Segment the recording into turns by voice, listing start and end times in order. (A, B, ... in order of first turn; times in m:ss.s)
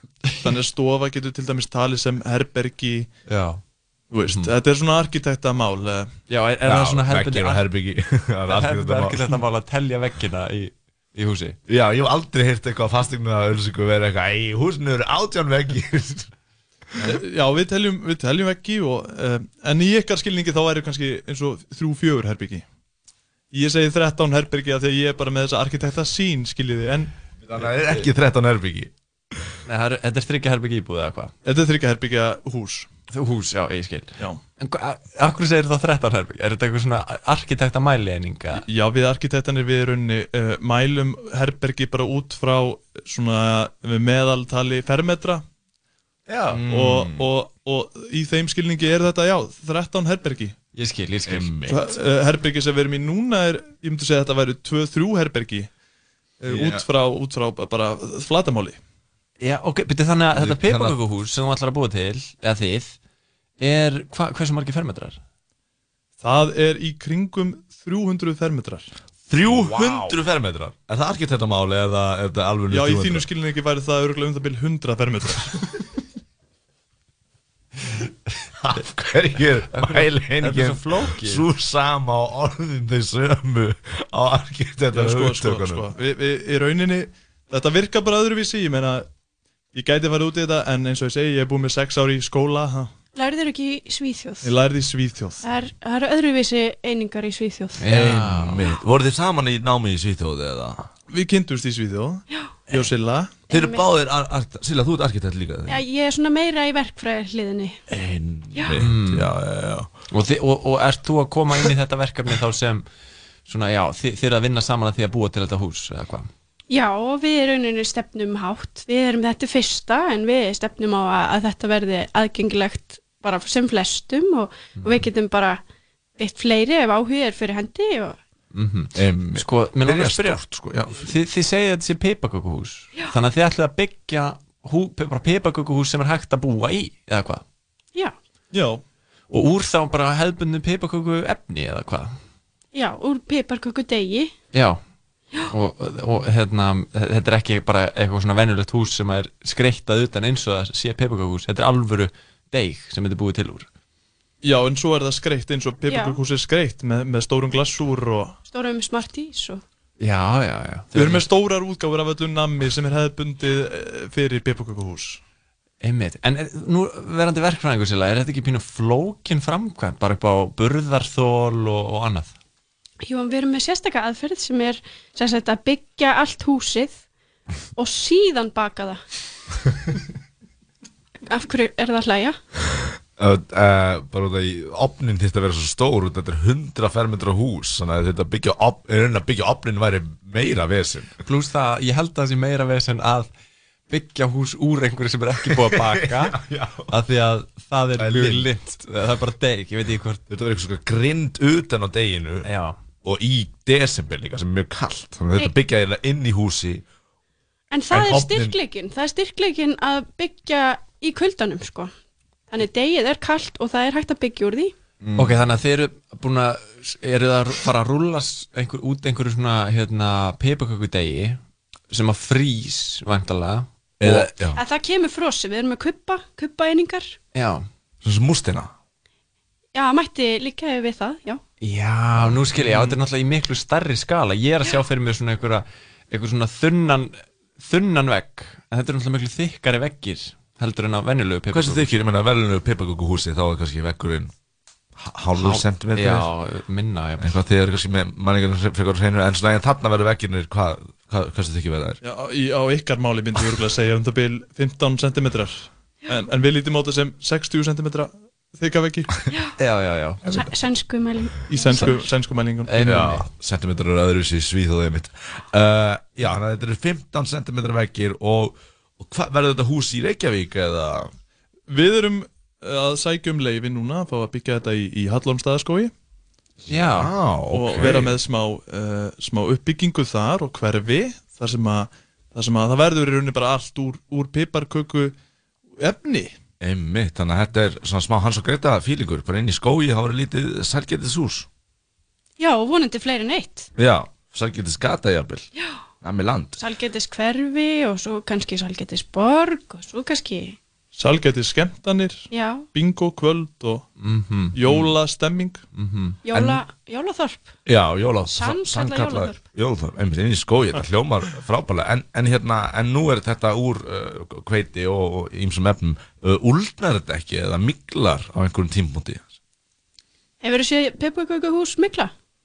0:00.4-0:03.1 A
0:03.3-0:03.6 B
0:04.1-0:06.1 A
0:06.3-0:07.6 B
0:06.6-0:09.4 C
0:08.5-0:11.6 B
0:11.7-0:16.3 C
0:17.0-0:22.6 A
0:23.5-0:27.1 A
0:27.4-0:28.9 C
0:29.7-0:31.3 B
0:31.4-0:32.9 A
0:33.1-0:38.6 B
0:38.7-0:45.4 A
0:46.3-0:46.6 B
0:46.5-0:47.3 C
0:46.6-0:50.5 A
0:50.7-0:51.5 B
0:51.3-0:51.9 C
0:51.7-0:55.7 A
0:56.4-0:58.8 A
0:56.4-0:56.8 C
0:59.4-1:02.9 B
1:00.3-1:01.0 C
1:03.6-1:05.2 B
1:06.2-1:08.9 A
1:09.3-1:13.3 C
1:09.6-1:10.1 B
1:12.7-1:15.5 A
1:18.6-1:25.9 C
1:19.7-1:21.4 B
1:25.0-1:29.0 A
1:29.7-1:32.9 A
1:33.1-1:34.5 D
1:34.4-1:35.4 A
1:35.4-1:37.8 D
1:37.8-1:38.6 B
1:37.9-1:40.9 C
1:41.1-1:42.2 A
1:42.7-1:43.3 A
1:43.5-1:45.8 C
1:43.5-1:43.9 D
1:45.7-1:47.8 D
1:47.9-1:49.9 C
1:48.8-1:49.3 B
1:50.1-1:52.8 B
1:53.5-1:56.3 B
1:56.7-2:05.6 D
2:06.2-2:08.2 D
2:08.5-2:10.4 B
2:09.0-2:11.0 C
2:10.9-2:17.4 B
2:18.5-2:18.8 A
2:19.3-2:22.1 B
2:22.7-2:24.3 D
2:24.5-2:24.8 B
2:25.5-2:33.7 B
2:34.4-2:38.4 A
2:35.8-2:36.2 D
2:38.5-2:39.6 D
2:40.0-2:41.2 B
2:40.9-2:45.2 A
2:45.8-2:52.3 B
2:53.0-2:57.0 D
2:57.8-2:59.0 D
3:01.3-3:02.4 D
3:03.2-3:11.1 C
3:11.2-3:13.3 B
3:13.9-3:16.4 B
3:15.5-3:17.0 C
3:16.9-3:20.2 B
3:18.0-3:18.5 C
3:20.3-3:22.5 C
3:22.4-3:22.8 B
3:23.0-3:26.8 C
3:27.7-3:31.9 D
3:27.9-3:28.6 C
3:32.5-3:34.7 D
3:35.0-3:41.4 B
3:41.9-3:44.3 B
3:44.0-3:44.6 C
3:44.5-3:47.2 D
3:47.3-3:47.6 B
3:48.0-3:48.7 C
3:49.7-3:51.4 D
3:51.6-4:01.9 B
4:01.5-4:04.3 C
4:05.0-4:06.3 C
4:05.4-4:07.4 B
4:07.2-4:12.0 C
4:12.0-4:19.1 A
4:19.6-4:20.4 B
4:20.3-4:22.0 D
4:21.5-4:22.8 A
4:22.6-4:23.2 B
4:22.8-4:31.1 C
4:31.7-4:35.9 A
4:36.7-4:38.2 C
4:36.7-4:37.1 B
4:37.5-4:45.1 A
4:45.8-4:46.3 A
4:46.6-4:51.5 C
4:52.4-4:53.7 D
4:53.7-4:55.5 C
4:56.0-4:56.6 C
4:56.6-5:00.6 D
5:00.9-5:03.8 A
5:02.3-5:02.7 D
5:04.0-5:04.9 B
5:04.6-5:05.6 A
5:05.7-5:06.2 B
5:06.2-5:07.5 D
5:06.3-5:06.6 C
5:07.6-5:19.3 C
5:08.3-5:09.4 D
5:20.4-5:22.1 D